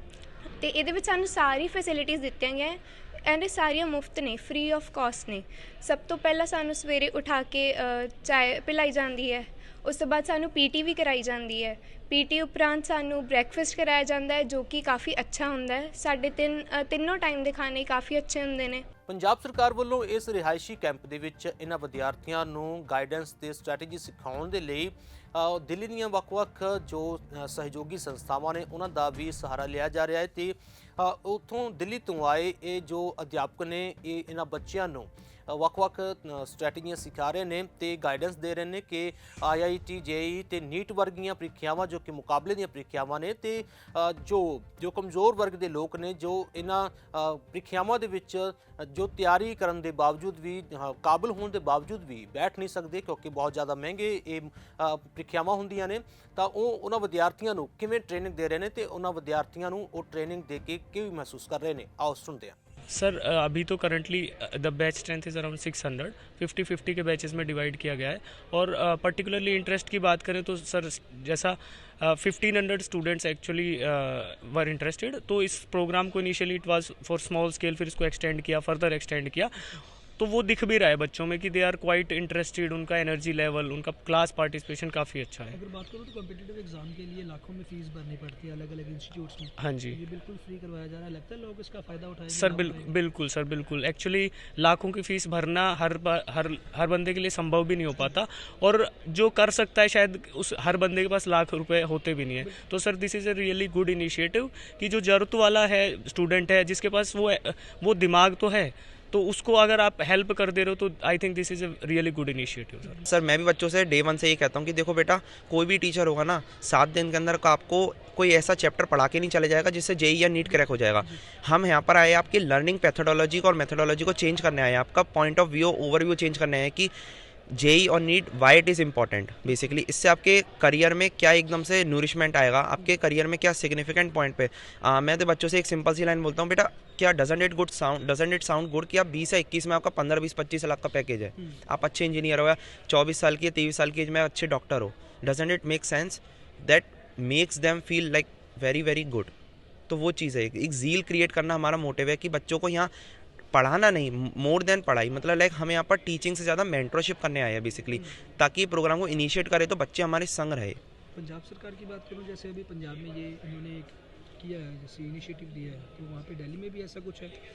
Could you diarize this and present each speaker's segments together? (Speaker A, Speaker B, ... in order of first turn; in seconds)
Speaker A: 0.6-18.8
Speaker B: 19.1-62.5
Speaker C: 62.9-85.6, 89.6-90.0, 92.3-113.0
Speaker D: 85.5-92.9, 120.4-121.2, 161.1-167.3
Speaker E: 113.0-126.9, 127.5-149.3, 149.9-152.9, 153.5-160.8